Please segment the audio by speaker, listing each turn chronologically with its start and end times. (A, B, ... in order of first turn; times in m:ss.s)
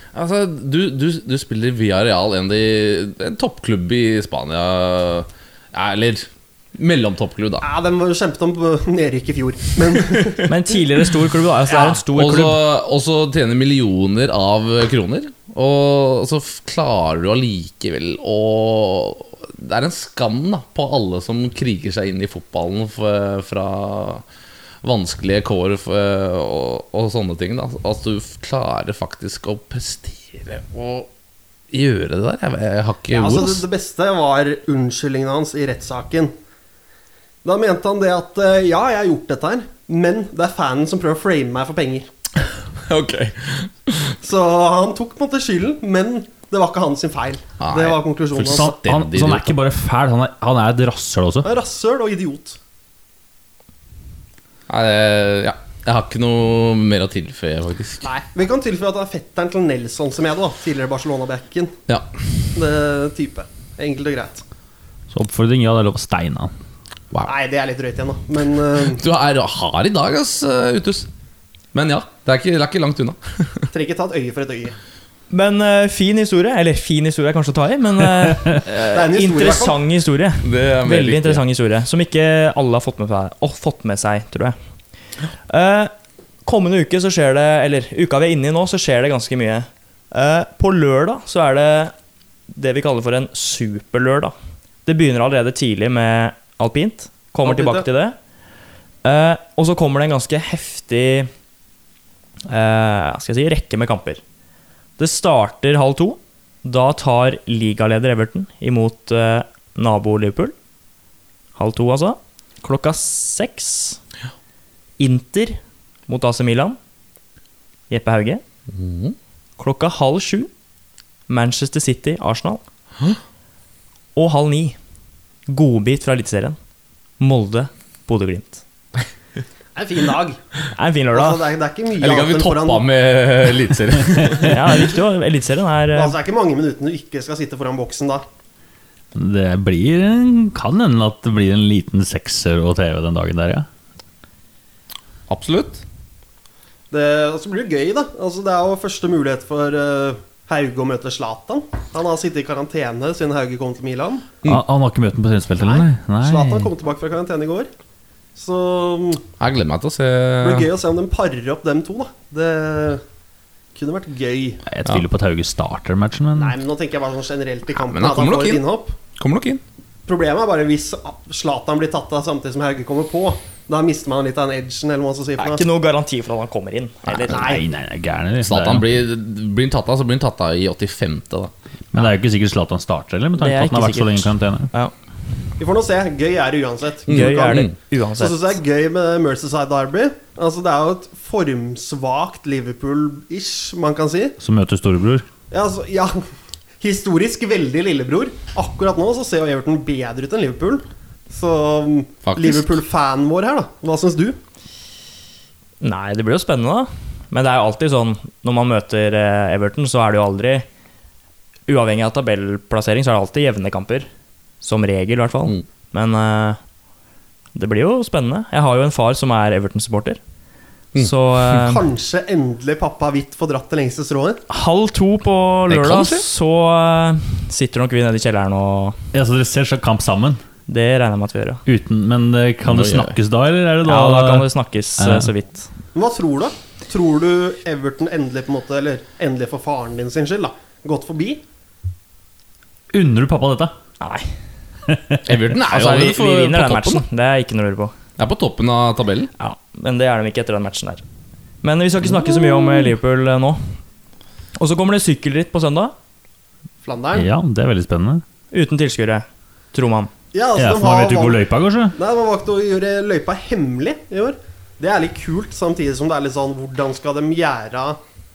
0:00.1-0:07.6 A
0:07.6-0:10.5 B
0:10.5-0:12.6 C
0:11.7-0:12.0 B
0:12.1-0:24.2 A
0:24.8-0:31.1 A
0:31.7-0:33.6 A
0:33.1-0:36.3 B
0:37.4-0:42.1 B
0:42.7-0:44.2 A
0:44.2-0:48.7 B
0:47.6-0:49.6 A
0:48.4-0:51.5 D
0:51.4-0:52.6 B
0:54.7-0:58.1 A
0:58.0-1:01.8 B
1:02.6-1:04.4 B
1:05.1-1:06.5 D
1:07.3-1:09.0 B
1:08.8-1:11.1 A
1:11.7-1:13.7 A
1:13.7-1:14.7 B
1:15.3-1:24.6 C
1:18.8-1:19.8 B
1:20.4-1:21.4 A
1:25.5-1:25.9 C
1:26.4-1:31.9 C
1:32.5-1:34.3 C
1:34.9-1:38.2 C
1:37.4-1:37.8 B
1:39.0-1:41.3 C
1:42.5-1:44.2 C
1:45.0-1:50.5 C
1:51.6-1:54.0 C
1:55.0-1:56.8 C
1:57.9-1:58.4 C
1:58.7-1:59.2 A
1:59.6-2:00.5 C
2:01.3-2:02.6 C
2:04.2-2:04.8 C
2:05.5-2:06.6 C
2:07.2-2:08.6 C
2:09.8-2:10.4 B
2:10.7-2:11.4 C
2:11.1-2:12.9 B
2:12.0-2:14.9 A
2:14.4-2:16.2 C
2:15.9-2:18.2 B
2:19.1-2:23.7 D
2:25.3-2:25.8 A
2:26.9-2:34.3 B
2:34.4-2:36.7 D
2:35.6-2:37.7 B
2:38.4-2:39.2 B
2:39.4-2:40.7 A
2:40.4-2:43.0 B
2:43.7-2:44.6 B
2:44.7-2:46.6 D
2:46.4-2:49.0 B
2:47.7-2:48.6 A
2:49.2-2:49.6 A
2:50.1-2:55.7 B
2:55.4-2:57.6 C
2:57.1-2:57.4 A
2:57.3-2:58.9 D
2:57.3-2:57.6 B
2:58.4-3:01.5 A
3:01.9-3:04.7 D
3:03.4-3:04.9 C
3:05.6-3:14.4 B
3:07.1-3:07.7 A
3:07.1-3:08.6 C
3:14.4-3:15.2 D
3:15.5-3:16.2 B
3:16.8-3:24.4 B
3:22.2-3:22.8 A
3:25.8-3:30.6 C
3:31.7-3:34.1 C
3:34.6-3:36.6 C
3:37.6-3:40.2 C
3:41.0-3:41.8 C
3:41.6-3:44.4 B
3:44.5-3:49.0 C
3:45.7-3:46.3 A
3:49.1-3:50.4 D
3:50.7-3:51.6 C
3:51.7-3:54.5 D
3:52.7-3:53.2 A
3:53.8-3:55.7 C
3:55.0-3:55.3 D
3:55.9-4:01.4 B
4:02.9-4:03.7 D
4:04.0-4:04.3 C
4:04.9-4:05.4 D
4:05.2-4:07.0 A
4:05.6-4:07.9 C
4:08.2-4:09.3 A
4:09.4-4:11.0 C
4:11.6-4:13.6 C
4:14.6-4:15.9 C
4:16.8-4:17.3 B
4:17.1-4:18.2 D
4:18.5-4:20.1 C
4:20.3-4:21.4 B
4:20.6-4:22.0 D
4:21.9-4:28.0 B